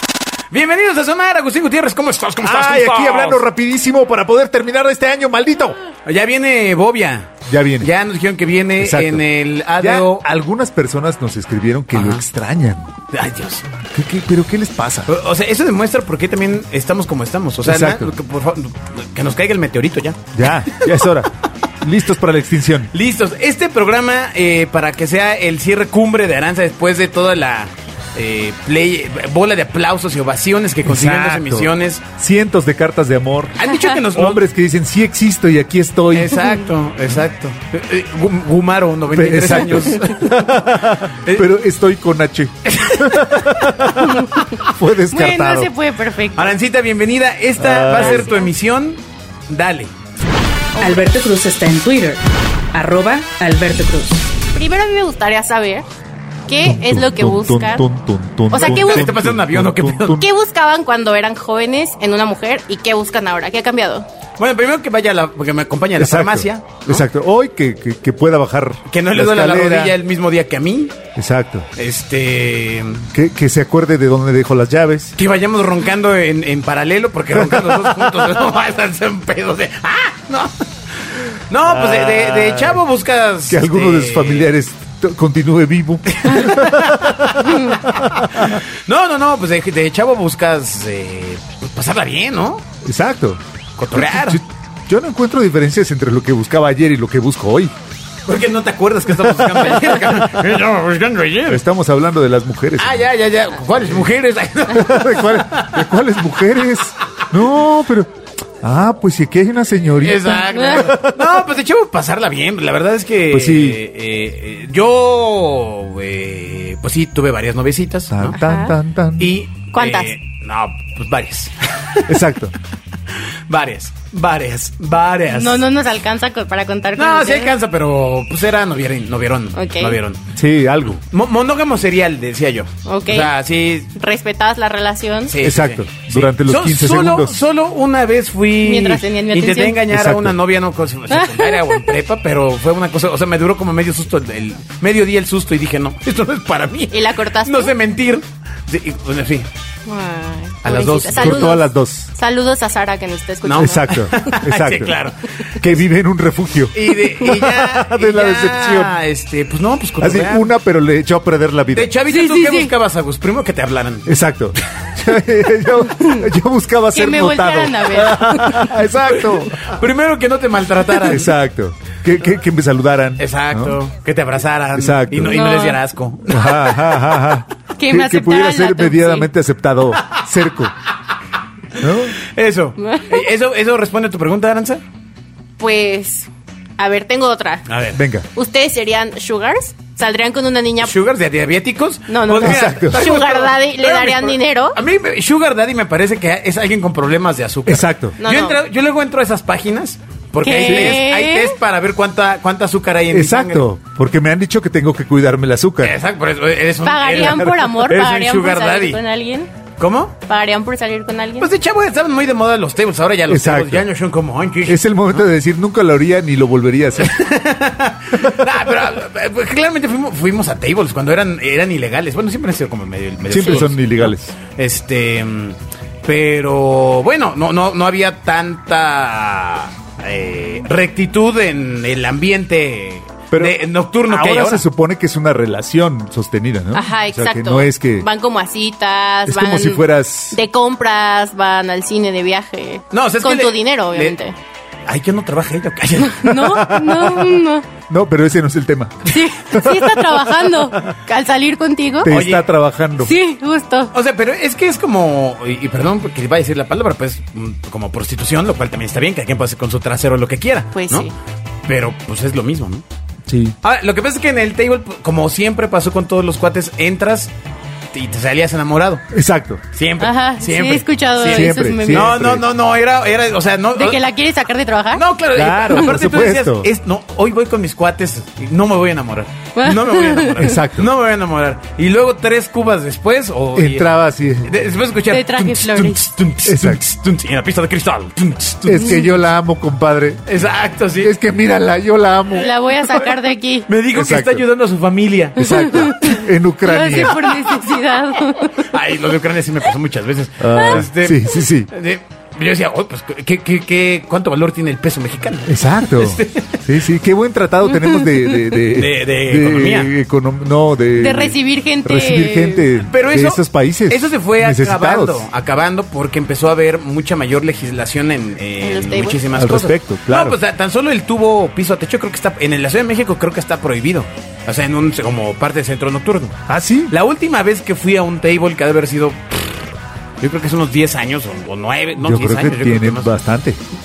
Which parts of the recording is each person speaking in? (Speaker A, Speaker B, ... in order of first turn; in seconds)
Speaker A: 0.5-3.4, 6.0-10.2, 11.9-12.2, 13.1-13.7, 15.1-21.0, 22.9-32.0, 33.6-34.4, 36.1-40.4, 41.2-41.5, 42.6-44.0, 46.3-49.9, 58.5-60.2, 64.4-67.0, 68.9-70.9, 71.8-73.0, 75.2-84.5, 86.1-87.6, 88.1-92.6, 93.8-94.4, 98.2-101.6, 102.8-105.9, 110.0-118.4, 119.2-122.2, 123.5-125.7, 127.0-130.2, 131.1-133.9, 135.3-149.5, 150.6-151.6, 153.4-155.7, 156.7-160.5, 161.7-164.1, 169.1-171.3, 173.2-177.0, 182.2-184.8, 187.7-188.0, 190.8-203.7, 205.8-209.0, 209.8-210.2, 211.4-215.2, 217.0-234.6, 242.9-244.2, 244.9-246.6, 252.1-252.4, 253.9-261.1, 261.7-262.8, 263.6-267.3, 267.9-269.0, 269.7-274.0, 274.9-283.9, 284.4-289.0, 290.3-291.1, 293.7-296.1, 297.0-297.5, 298.6-306.7, 308.7-309.9, 312.8-329.6, 330.2-333.1
Speaker B: 2.4-5.8, 7.5-7.9, 8.8-9.2, 9.8-12.9, 13.8-15.1, 17.6-18.1, 20.3-21.3, 21.8-22.9, 30.8-36.5, 39.1-45.7, 47.6-48.3, 56.6-60.3, 66.0-70.0, 71.2-71.7, 73.1-75.2, 77.4-78.1, 81.7-82.8, 83.5-88.6, 92.8-93.4, 93.9-97.7, 101.5-103.0, 103.8-104.1, 104.7-111.1, 113.3-113.8, 118.1-119.3, 122.1-122.5, 130.3-131.0, 135.4-137.4, 139.9-140.4, 151.1-152.1, 153.5-159.0, 160.0-161.9, 164.0-169.7, 171.0-173.8, 174.7-175.5, 176.3-180.7, 181.8-182.2, 187.9-188.3, 192.4-193.0, 197.7-198.2, 200.6-201.0, 203.1-205.9, 207.2-207.5, 213.3-213.9, 214.7-217.2, 223.3-224.3, 233.3-238.1, 239.2-240.4, 246.3-250.0, 252.0-253.2, 263.3-263.6, 269.1-269.6, 271.3-272.4, 275.3-276.7, 280.4-280.9, 283.6-284.5, 286.4-286.8, 288.6-290.3, 291.0-292.5, 293.9-294.4, 295.4-297.2, 300.4-301.7, 305.4-315.3, 319.3-320.4, 326.5-326.9, 332.0-333.6
Speaker C: 44.0-44.4, 45.1-46.5, 47.9-48.5, 50.8-51.0, 54.5-55.9, 56.5-57.8, 58.5-59.1, 60.2-64.1, 110.5-111.0, 118.3-118.8, 119.7-120.1, 125.3-127.6, 129.5-130.0, 132.8-133.3, 133.9-135.3, 138.6-139.8, 141.1-141.9, 146.9-147.7, 149.9-154.3, 162.1-162.7, 165.9-166.3, 166.9-168.8, 175.3-175.8, 177.8-179.3, 182.8-183.2, 185.6-187.7, 188.3-190.9, 192.1-194.8, 198.2-198.6, 200.4-201.5, 206.8-209.5, 210.2-211.5, 236.7-244.3, 246.1-247.7, 249.1-252.1, 253.0-253.9, 260.7-261.1, 270.0-272.3, 273.7-275.0, 279.5-280.5, 285.1-286.0, 292.4-293.7, 295.4-298.7, 307.7-308.5, 310.9-312.6, 318.6-319.2
Speaker D: 50.8-52.2, 52.7-54.2